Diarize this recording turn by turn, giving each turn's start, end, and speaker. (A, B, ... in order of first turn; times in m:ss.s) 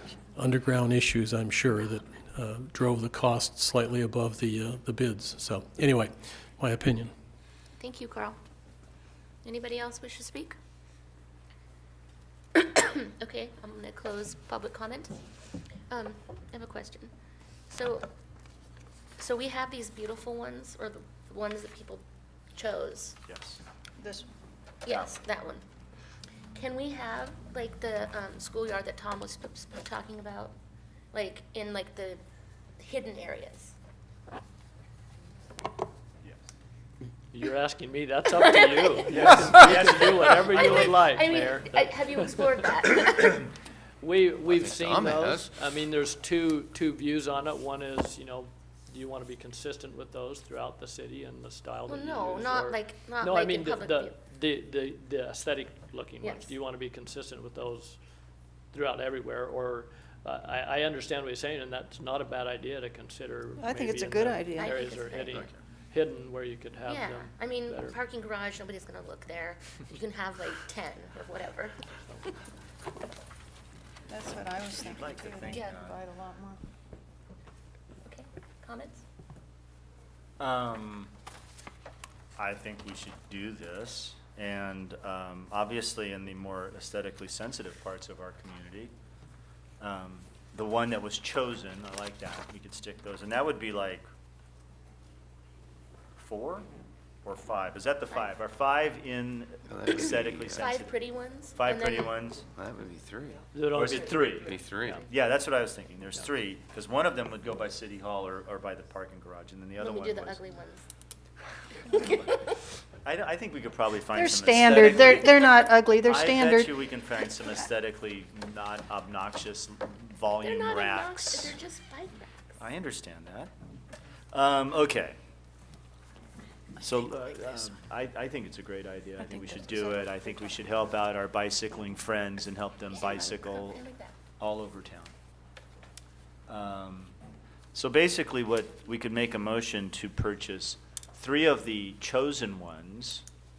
0:00.4-0:07.1 A
0:07.8-0:08.4 B
0:09.4-0:10.6 B
0:12.6-0:15.2 B
0:15.9-0:17.1 B
0:17.7-0:18.1 B
0:19.2-0:23.2 B
0:23.3-0:23.6 C
0:24.0-0:24.3 D
0:24.8-0:25.6 B
0:24.9-0:25.2 C
0:26.5-0:30.5 B
0:31.1-0:32.2 B
0:32.8-0:33.7 B
0:37.3-0:42.6 E
0:38.4-0:39.2 B
0:39.1-0:41.0 C
0:40.4-0:43.5 B
0:44.0-0:58.0 E
0:44.4-0:45.6 F
0:51.9-0:54.2 B
0:56.2-0:56.5 B
0:58.7-1:08.0 E
1:03.6-1:04.8 D
1:04.6-1:05.4 B
1:06.8-1:12.3 B
1:14.1-1:16.6 D
1:14.8-1:16.0 C
1:15.5-1:15.8 B
1:18.0-1:19.0 B
1:20.4-1:21.1 C
1:22.4-1:28.9 C
1:29.8-1:34.1 C
1:36.2-1:36.7 C
1:37.2-1:41.0 C
1:39.7-1:40.7 F
1:40.6-1:42.2 B
1:41.6-1:42.4 C
1:42.6-1:43.4 F
1:43.5-1:44.5 E
1:43.7-1:50.4 C
1:44.4-1:45.1 F
1:49.8-1:50.8 B
1:51.9-1:52.6 B
1:53.0-1:55.4 C
1:54.1-1:56.8 D
1:56.0-2:01.6 C
2:00.4-2:02.6 B
2:02.6-2:03.5 C
2:04.3-2:05.2 C
2:06.8-2:15.1 C
2:09.2-2:10.5 D
2:12.8-2:14.2 B
2:16.5-2:17.2 C
2:17.7-2:23.2 C